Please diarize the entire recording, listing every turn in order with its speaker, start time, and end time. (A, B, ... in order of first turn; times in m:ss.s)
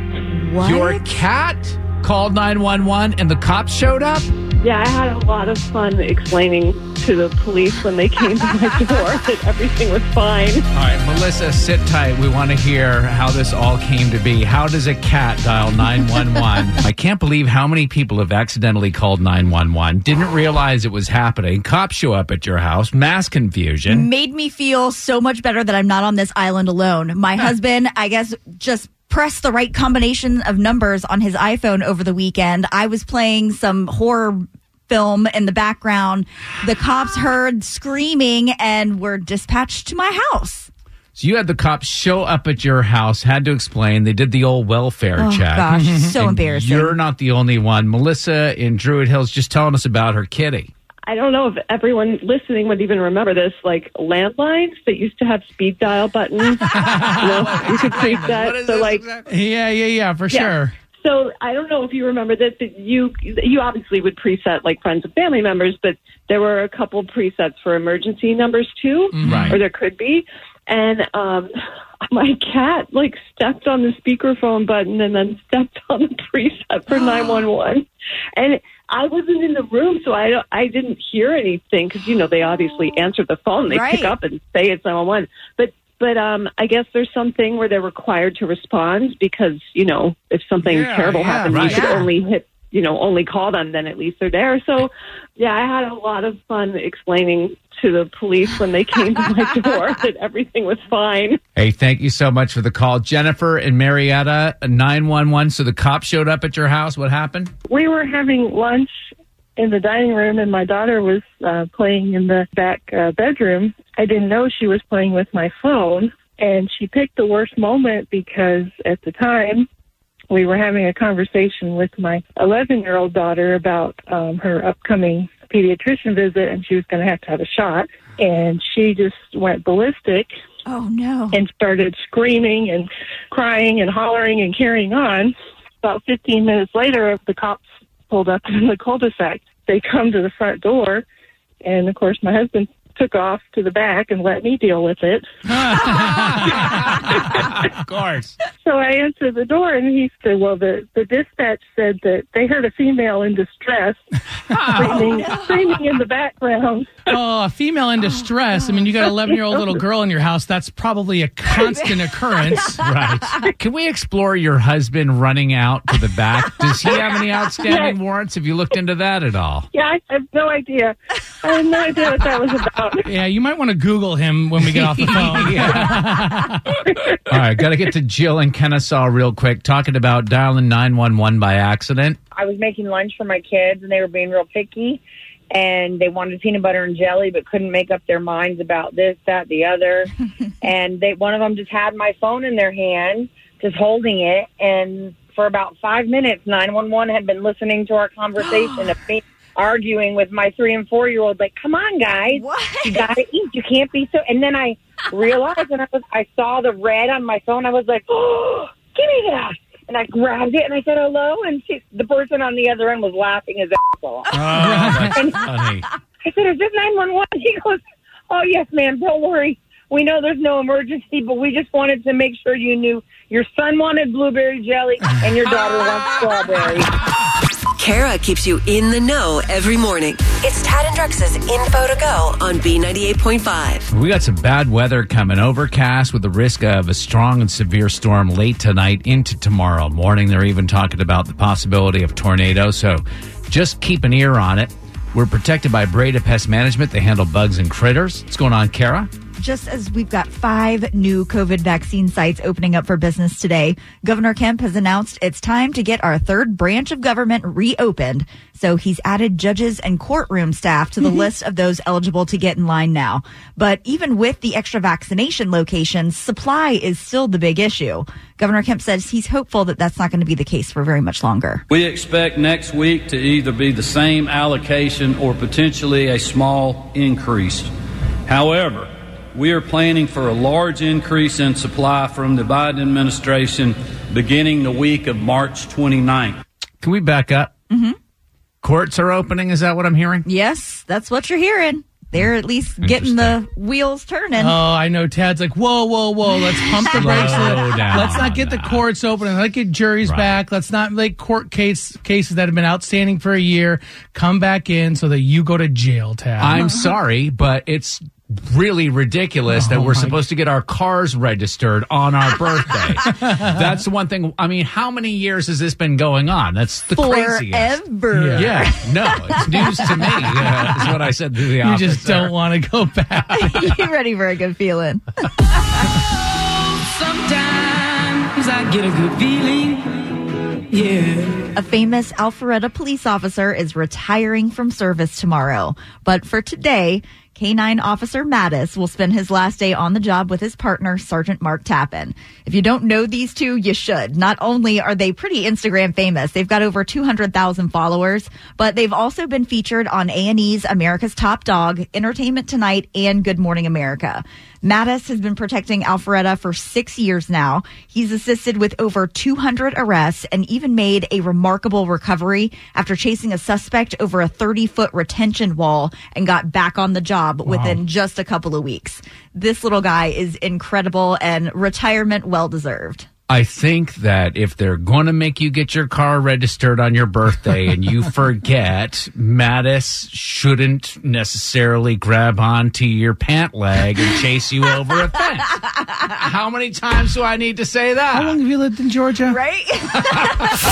0:00.3-0:01.2 A
0:00.6-0:04.3 B
0:04.6-0:10.6 C
0:10.7-0:24.1 B
0:23.9-0:40.7 A
0:41.2-0:50.7 B
0:45.2-0:47.0 A
0:45.7-0:46.1 D
0:51.1-0:59.0 C
0:56.7-0:59.3 B
0:56.8-0:57.2 D
0:59.3-1:00.7 D
1:00.3-1:11.5 C
1:09.1-1:09.6 D
1:09.2-1:09.6 B
1:12.1-1:41.4 C
1:16.9-1:17.4 A
1:23.6-1:24.2 A
1:30.6-1:31.7 D
1:31.4-1:32.0 B
1:31.6-1:32.1 A
1:41.6-1:47.5 B
1:47.7-1:59.7 E
2:00.3-2:10.3 E
2:10.6-2:11.4 A
2:11.3-2:21.0 E
2:21.6-2:25.3 E
2:25.5-2:27.1 D
2:25.7-2:28.4 B
2:28.6-2:34.0 E
2:34.5-2:35.1 B
2:34.7-2:37.0 E
2:35.0-2:35.8 A
2:37.1-2:42.8 D
2:38.0-2:39.0 A
2:41.6-2:42.1 A
2:42.7-2:49.7 B
2:47.6-2:48.0 E
2:49.7-2:53.1 E
2:53.0-2:56.8 D
2:54.7-2:56.3 B
2:57.2-3:02.2 B
3:02.3-3:34.4 F
3:22.3-3:23.1 A
3:34.3-3:35.9 B
3:34.6-3:35.1 D
3:35.1-3:35.4 F
3:36.2-3:46.9 F
3:47.8-3:53.9 G
3:53.9-4:09.1 B
4:09.4-4:31.6 A
4:31.7-4:37.7 H
4:38.2-4:46.4 H
4:46.8-4:47.5 B
4:47.7-4:48.0 A
4:48.6-4:50.2 B
4:50.2-4:54.6 A
4:52.8-4:53.3 B
4:54.4-5:06.7 D
4:56.6-4:57.9 A
4:56.9-4:58.8 B
5:00.0-5:00.4 B
5:06.4-5:17.7 B
5:09.5-5:10.2 D
5:13.2-5:13.7 D
5:16.9-5:20.5 A
5:18.1-5:18.6 D
5:18.3-5:22.3 B
5:21.6-5:23.8 D
5:23.3-5:25.0 A
5:26.8-5:30.1 I
5:30.7-5:31.5 I
5:31.6-6:13.1 A
6:07.4-6:07.8 D
6:13.3-6:28.4 B
6:28.1-6:29.4 D
6:29.3-6:30.6 A
6:30.1-6:30.4 B